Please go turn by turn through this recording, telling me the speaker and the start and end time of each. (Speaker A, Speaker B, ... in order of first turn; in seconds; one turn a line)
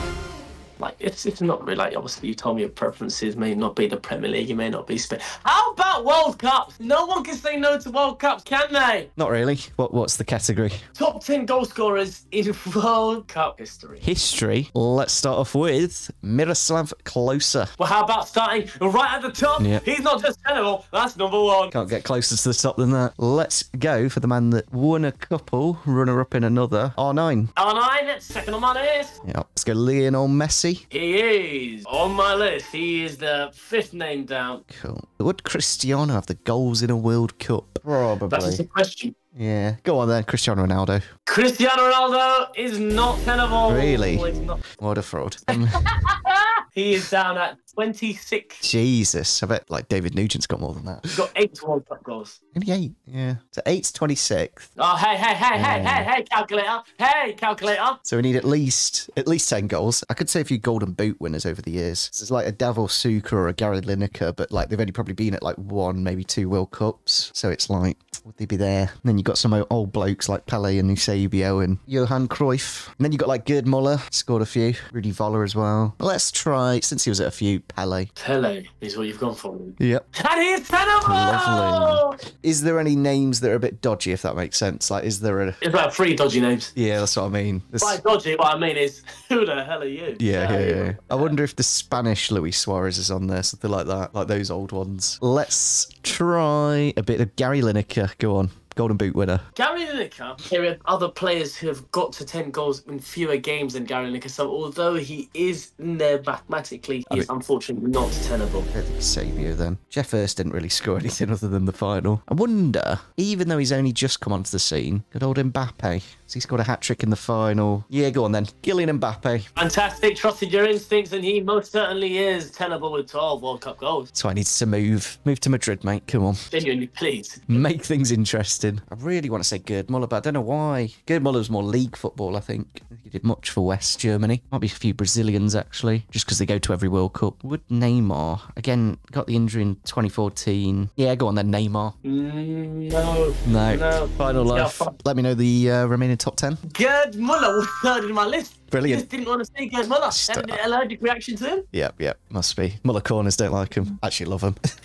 Speaker A: 0.8-9.1
Speaker B: 9.2-10.9
Speaker A: 11.0-14.0
Speaker B: 14.0-17.7
Speaker A: 17.8-21.7
Speaker B: 21.7-27.5
Speaker A: 27.6-29.2
Speaker B: 29.2-30.8
Speaker A: 30.9-34.6
Speaker B: 34.7-38.6
Speaker A: 38.3-39.1
Speaker B: 39.4-41.1
Speaker A: 41.3-44.6
Speaker B: 43.7-44.2
Speaker B: 44.8-45.9
Speaker A: 45.5-48.6
Speaker B: 48.6-51.3
Speaker A: 51.1-52.4
Speaker B: 52.5-54.7
Speaker A: 54.8-58.0
Speaker B: 55.5-56.1
Speaker B: 58.0-78.1
Speaker A: 78.2-82.2
Speaker B: 79.8-80.1
Speaker B: 81.0-85.6
Speaker A: 85.6-86.7
Speaker B: 86.8-88.0
Speaker A: 87.8-91.4
Speaker B: 90.2-99.5
Speaker A: 99.6-108.7
Speaker B: 108.7-119.5
Speaker A: 119.6-124.1
Speaker B: 124.1-126.5
Speaker A: 126.5-127.7
Speaker B: 127.5-141.9
Speaker A: 142.0-145.0
Speaker B: 143.4-146.6
Speaker A: 146.7-151.7
Speaker B: 148.7-149.1
Speaker B: 150.1-150.6
Speaker B: 151.7-154.6